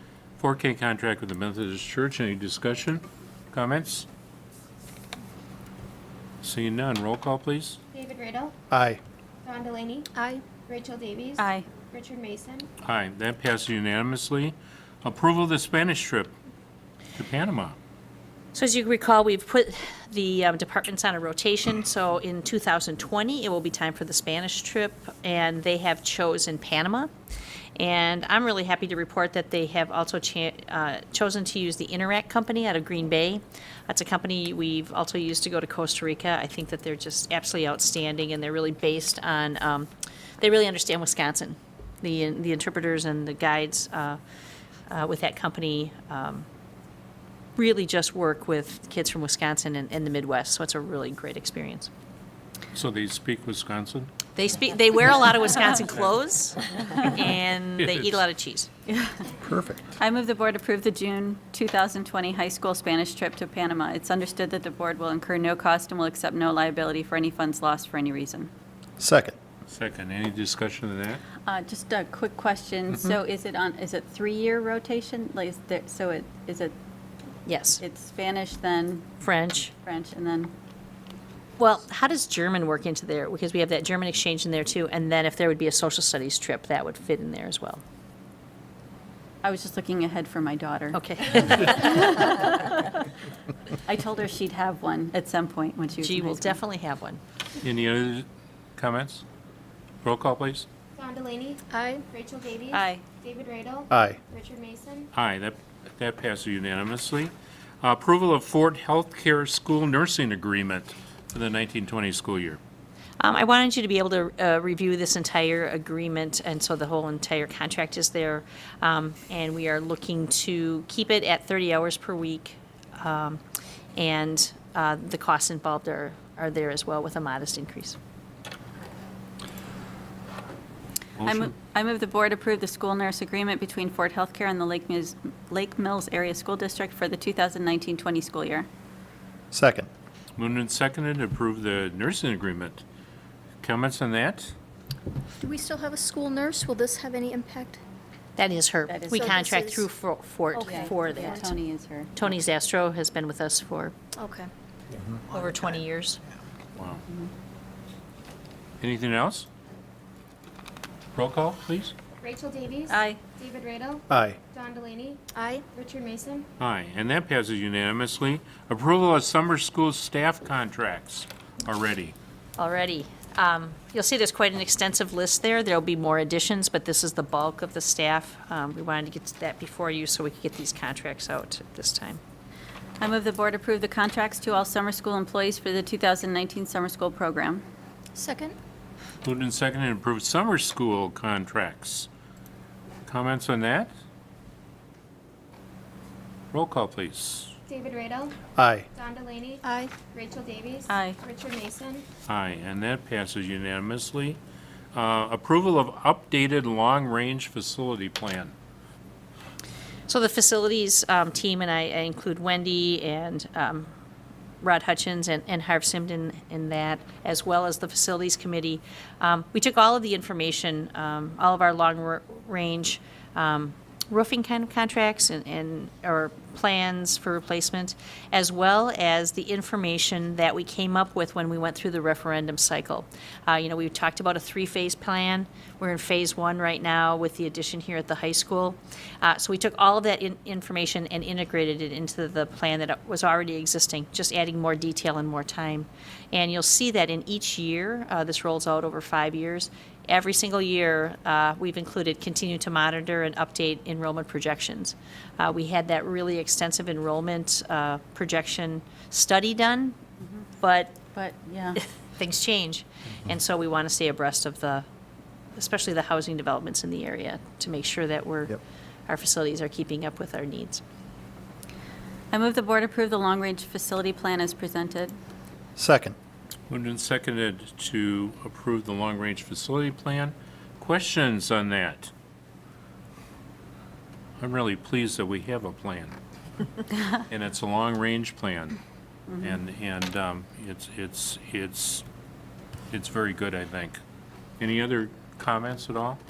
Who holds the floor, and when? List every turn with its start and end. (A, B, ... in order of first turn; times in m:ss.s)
0:00.4-0:04.1 A
0:06.4-0:07.8 A
0:07.9-0:08.5 B
0:08.7-0:09.0 C
0:09.4-0:10.1 B
0:10.2-0:10.4 D
0:10.6-0:12.7 B
0:11.4-0:11.7 E
0:12.8-0:16.3 A
0:17.2-0:17.8 A
0:18.5-0:27.1 F
0:27.8-0:39.9 F
0:40.4-0:44.2 F
0:44.9-0:46.4 F
0:47.6-0:51.9 F
0:52.7-0:54.1 A
0:54.4-0:58.7 F
0:57.8-0:58.3 A
0:58.9-0:59.3 E
0:59.4-0:59.8 C
1:00.0-1:08.5 E
1:09.0-1:09.3 C
1:09.7-1:11.2 A
1:11.4-1:16.8 E
1:17.4-1:17.8 F
1:17.8-1:19.2 E
1:19.2-1:19.7 F
1:19.8-1:20.5 E
1:21.6-1:27.8 F
1:29.4-1:32.8 E
1:30.9-1:32.8 F
1:33.9-1:36.6 E
1:36.0-1:37.2 F
1:37.6-1:39.2 A
1:40.0-1:40.7 A
1:41.0-1:45.1 B
1:41.7-1:42.0 D
1:42.7-1:43.0 E
1:43.9-1:44.2 C
1:45.1-1:52.6 A
1:53.2-2:03.4 F
2:04.0-2:08.0 F
2:11.2-2:11.5 A
2:11.2-2:18.7 E
2:19.5-2:19.9 C
2:20.4-2:22.8 A
2:23.6-2:24.5 A
2:25.4-2:27.8 D
2:28.4-2:31.4 F
2:28.9-2:29.4 E
2:29.1-2:29.9 D
2:30.6-2:32.2 E
2:32.1-2:34.0 F
2:34.2-2:34.5 D
2:35.3-2:36.2 F
2:36.7-2:37.0 A
2:38.8-2:39.5 A
2:41.1-2:41.9 A
2:42.2-2:46.4 B
2:42.9-2:43.2 E
2:44.1-2:44.4 C
2:45.3-2:45.6 D
2:46.6-2:52.1 A
2:52.6-3:02.2 F
3:03.0-3:07.6 E
3:08.2-3:08.5 D
3:09.2-3:12.1 A
3:13.1-3:13.9 A
3:16.5-3:17.5 A
3:17.7-3:18.4 B
3:18.6-3:18.9 C
3:18.9-3:19.6 B
3:20.1-3:22.0 B
3:20.9-3:21.2 E
3:22.3-3:24.4 A
3:24.9-3:28.5 A
3:30.1-3:33.9 F
3:34.6-4:20.0 F
4:20.6-4:21.0 F
4:21.1-4:21.8 E
4:22.2-4:24.8 F
4:25.6-4:28.6 F
4:29.1-4:30.8 F
4:32.3-4:35.1 E
4:35.8-4:36.1 C
4:36.7-4:42.1 A
4:44.4-4:46.2 A
4:47.1-4:48.8 A
4:49.4-4:52.0 A
4:52.9-4:54.0 A
4:54.6-4:56.2 A